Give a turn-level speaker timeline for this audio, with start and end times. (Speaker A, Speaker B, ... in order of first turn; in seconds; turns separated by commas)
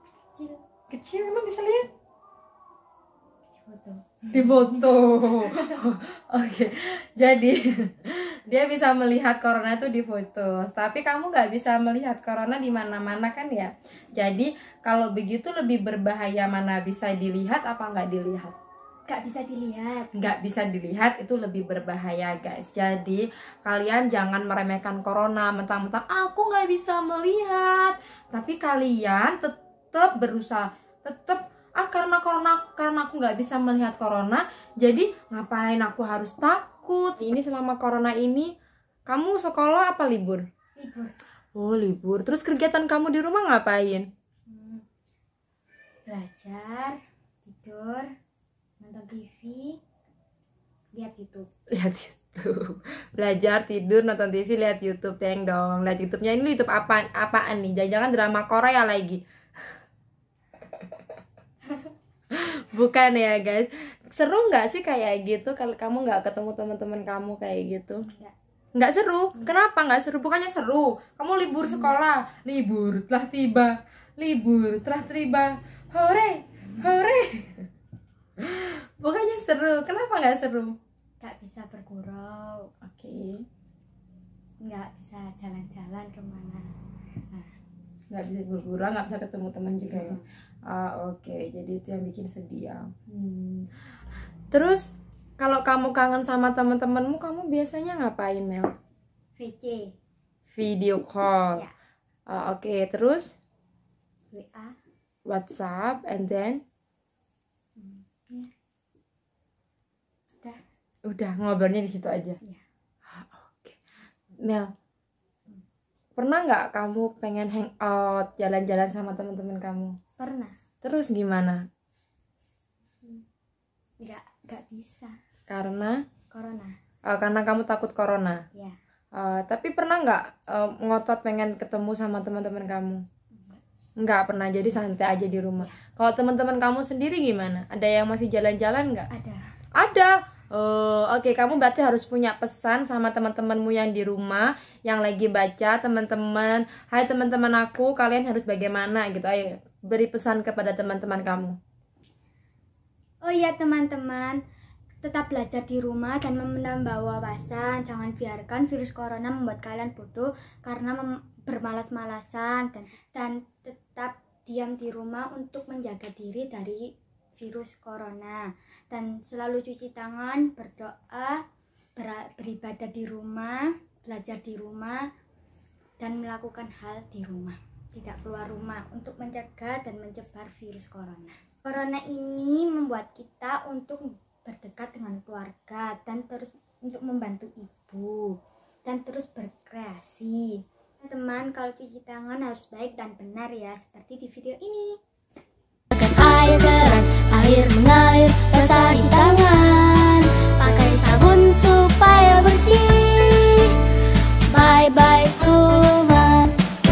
Speaker A: 0.3-0.6, Speaker B: 0.9-1.9, Speaker A: 3.6-4.4, Speaker B: 4.3-18.6, Speaker A: 19.1-20.1, Speaker B: 20.1-38.5, Speaker B: 39.1-40.4, Speaker A: 40.8-41.1, Speaker B: 41.5-44.1, Speaker A: 44.5-44.8, Speaker A: 46.1-48.1, Speaker A: 48.8-49.8, Speaker A: 51.0-51.5, Speaker B: 51.7-59.2, Speaker B: 62.3-68.0, Speaker A: 68.1-68.3, Speaker B: 68.8-77.7, Speaker A: 71.7-72.0, Speaker B: 78.4-80.7, Speaker A: 81.2-82.7, Speaker B: 82.8-83.4, Speaker A: 84.6-86.8, Speaker B: 88.1-93.7, Speaker A: 89.9-90.2, Speaker B: 94.5-98.7, Speaker A: 99.4-99.9, Speaker B: 100.5-101.6, Speaker B: 102.3-103.3, Speaker A: 104.3-104.8, Speaker B: 105.3-106.6, Speaker A: 107.8-108.5, Speaker B: 111.0-112.4, Speaker B: 113.1-113.8, Speaker B: 114.4-114.7, Speaker B: 116.2-120.0, Speaker A: 120.2-120.6, Speaker B: 120.8-121.6, Speaker A: 124.0-125.1, Speaker B: 125.5-126.0, Speaker A: 126.3-126.8, Speaker B: 127.0-128.4, Speaker B: 129.1-133.0, Speaker A: 133.3-133.6, Speaker B: 134.0-139.1, Speaker A: 139.1-139.4, Speaker B: 139.8-151.6, Speaker A: 153.2-154.4, Speaker A: 155.0-171.4, Speaker A: 172.0-175.0, Speaker A: 176.0-195.0, Speaker C: 195.9-203.8, Speaker C: 204.5-206.6